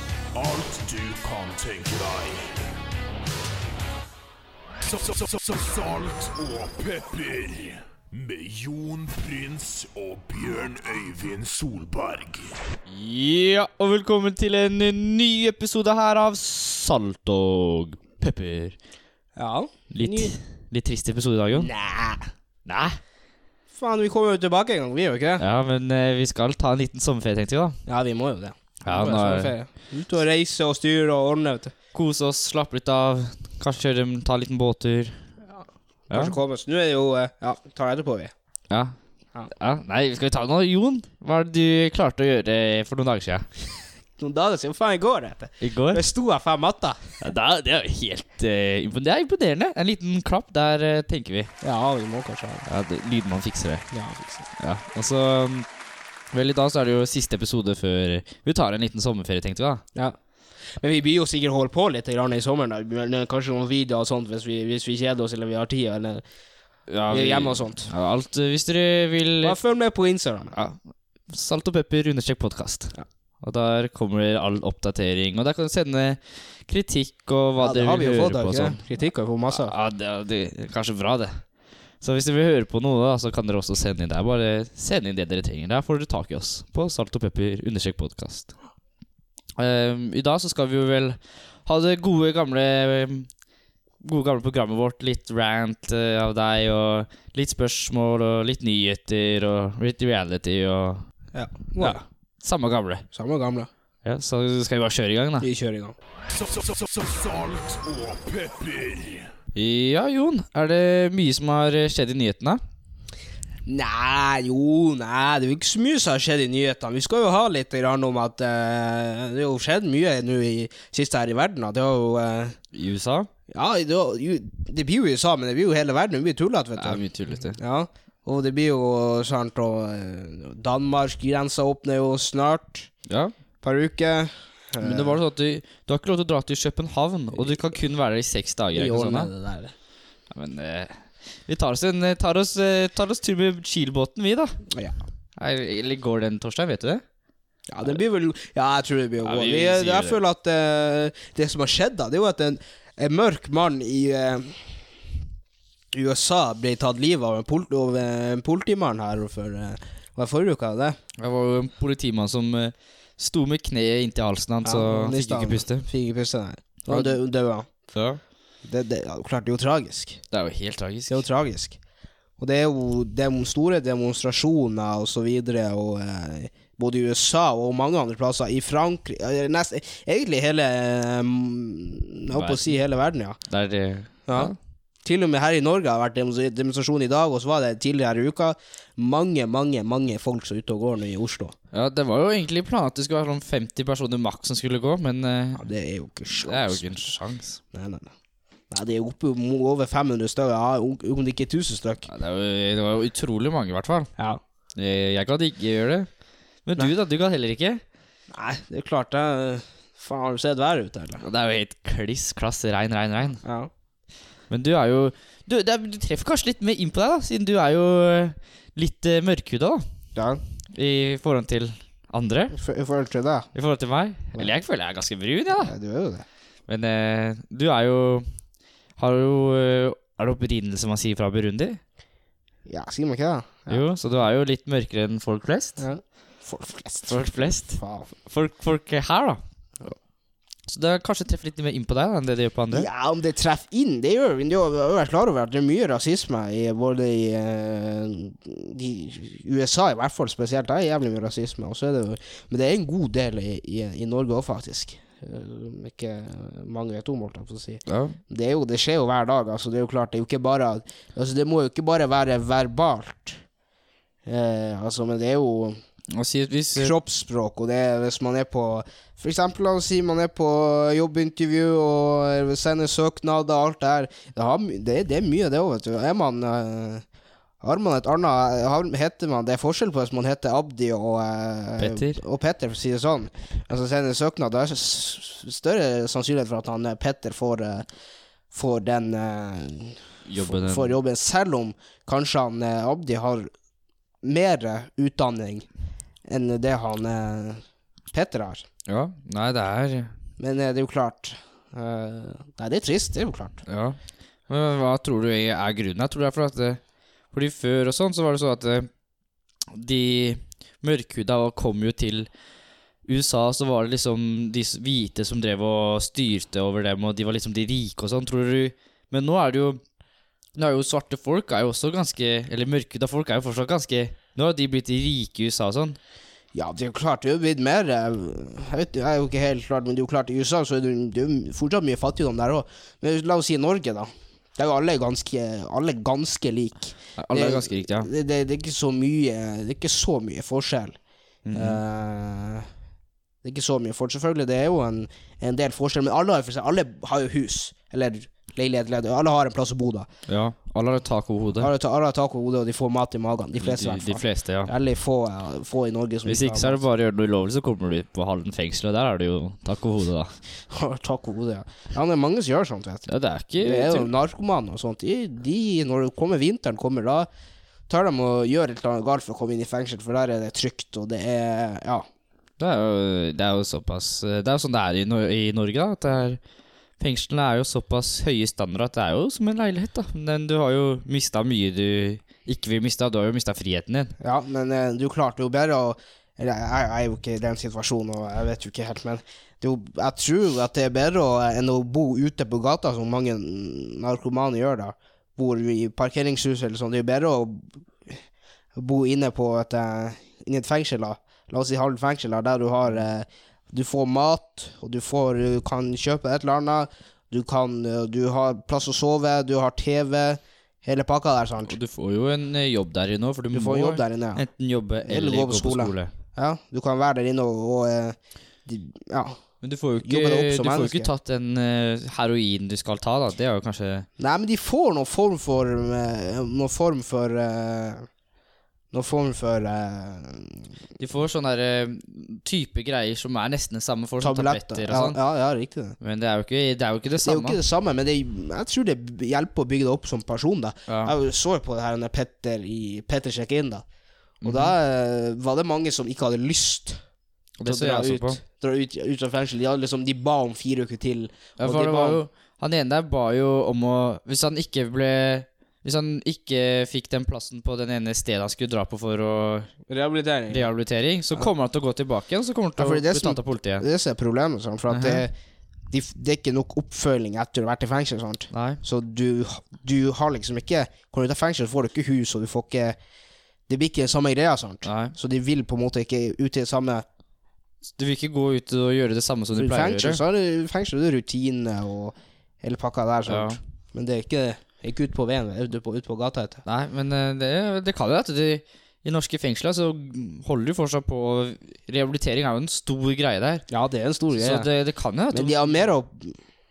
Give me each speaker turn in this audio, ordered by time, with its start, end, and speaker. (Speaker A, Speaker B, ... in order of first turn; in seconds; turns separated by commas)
Speaker A: 0.3-2.6, Speaker A: 4.9-12.6, Speaker B: 12.9-18.8, Speaker C: 19.4-20.3, Speaker B: 19.9-21.7, Speaker C: 21.5-22.3, Speaker B: 22.7-23.0, Speaker C: 23.7-25.4, Speaker B: 25.4-27.8, Speaker C: 27.9-31.7, Speaker B: 28.8-29.5, Speaker B: 31.9-35.2, Speaker C: 36.1-38.3, Speaker B: 38.7-39.0, Speaker B: 39.5-43.5, Speaker C: 44.2-47.2, Speaker B: 45.6-46.0, Speaker B: 47.2-51.5, Speaker C: 51.6-52.7, Speaker B: 52.7-53.9, Speaker C: 53.9-54.5, Speaker B: 54.6-55.7, Speaker B: 56.3-59.8, Speaker C: 60.7-66.2, Speaker B: 66.9-69.6, Speaker C: 67.1-67.9, Speaker C: 69.4-70.5, Speaker B: 70.5-78.8, Speaker C: 77.6-79.7, Speaker B: 79.5-81.4, Speaker B: 82.0-88.5, Speaker B: 89.6-93.3, Speaker B: 94.0-101.0, Speaker C: 101.3-102.0, Speaker B: 101.8-103.0, Speaker C: 103.1-103.7, Speaker B: 104.0-105.5, Speaker C: 105.4-106.0, Speaker A: 106.3-109.3, Speaker B: 109.5-112.6, Speaker C: 113.7-122.6, Speaker B: 122.7-123.3, Speaker C: 123.5-132.9, Speaker B: 126.8-127.6, Speaker B: 133.1-133.3, Speaker C: 133.6-135.2, Speaker B: 134.8-139.3, Speaker C: 137.4-137.7, Speaker C: 138.8-139.7, Speaker B: 140.3-144.6, Speaker C: 144.7-145.0, Speaker B: 145.4-147.0, Speaker C: 147.7-154.8, Speaker B: 149.2-150.2, Speaker C: 155.9-161.0, Speaker B: 161.2-165.9, Speaker C: 164.6-167.7, Speaker B: 166.9-167.2, Speaker B: 167.9-168.2, Speaker C: 168.7-170.2, Speaker B: 170.3-171.2, Speaker C: 171.1-171.8, Speaker C: 172.4-183.4, Speaker B: 182.3-182.8, Speaker B: 183.5-184.6, Speaker C: 184.3-184.5, Speaker C: 185.1-191.6, Speaker B: 191.7-195.7, Speaker C: 195.6-197.1, Speaker B: 196.3-197.6, Speaker C: 197.7-198.1, Speaker C: 198.7-202.1, Speaker B: 202.1-204.1, Speaker B: 204.8-206.1, Speaker B: 206.7-207.8, Speaker C: 208.3-211.2, Speaker B: 211.2-213.4, Speaker C: 213.4-213.7, Speaker B: 214.5-219.8, Speaker C: 220.2-220.4, Speaker B: 220.7-222.6, Speaker C: 222.5-223.5, Speaker B: 223.5-225.7, Speaker C: 225.6-226.2, Speaker B: 226.7-228.3, Speaker B: 229.0-231.8, Speaker C: 232.7-233.8, Speaker B: 233.7-235.8, Speaker C: 235.8-238.1, Speaker B: 237.1-239.4, Speaker B: 240.7-242.9, Speaker C: 242.7-263.4, Speaker B: 257.9-258.2, Speaker C: 264.3-265.8, Speaker B: 266.1-266.9, Speaker C: 266.8-277.1, Speaker C: 277.6-287.9, Speaker B: 281.8-282.2, Speaker C: 288.5-293.5, Speaker B: 290.3-291.0, Speaker C: 294.2-295.7, Speaker C: 296.3-298.6, Speaker B: 298.9-300.1, Speaker C: 300.4-303.6, Speaker B: 303.7-304.0, Speaker B: 304.5-306.8, Speaker B: 307.3-308.9, Speaker B: 309.7-312.3, Speaker B: 313.1-319.8, Speaker B: 320.6-326.0, Speaker C: 326.5-341.0, Speaker B: 337.2-338.1, Speaker B: 341.4-341.8, Speaker C: 341.5-342.7, Speaker C: 343.4-350.1, Speaker B: 350.3-351.7, Speaker C: 351.6-356.8, Speaker B: 353.6-354.7, Speaker B: 356.2-360.3, Speaker C: 360.7-363.1, Speaker B: 363.1-364.1, Speaker C: 363.6-367.3, Speaker C: 367.9-372.1, Speaker B: 372.6-376.4, Speaker B: 377.0-384.1, Speaker C: 384.2-398.2, Speaker C: 398.8-411.8, Speaker B: 411.7-416.1, Speaker C: 413.5-414.4, Speaker C: 415.0-419.4, Speaker B: 419.6-424.1, Speaker C: 420.0-421.1, Speaker C: 424.2-428.1, Speaker C: 428.9-430.7, Speaker B: 431.0-435.2, Speaker C: 434.2-436.0, Speaker B: 436.0-437.6, Speaker C: 437.2-443.9, Speaker B: 440.9-441.1, Speaker B: 444.4-444.8, Speaker C: 444.4-447.0, Speaker B: 447.6-448.4, Speaker C: 447.6-452.2, Speaker B: 451.6-459.7, Speaker C: 459.9-460.7, Speaker B: 460.5-463.9, Speaker C: 462.8-465.3, Speaker B: 464.9-465.2, Speaker C: 465.9-473.0, Speaker B: 468.5-468.8, Speaker C: 473.7-477.1, Speaker B: 474.9-475.1, Speaker B: 478.0-480.2, Speaker C: 479.6-486.6, Speaker B: 483.3-483.6, Speaker B: 486.7-493.6, Speaker C: 493.7-494.7, Speaker B: 494.3-495.8, Speaker C: 495.3-496.4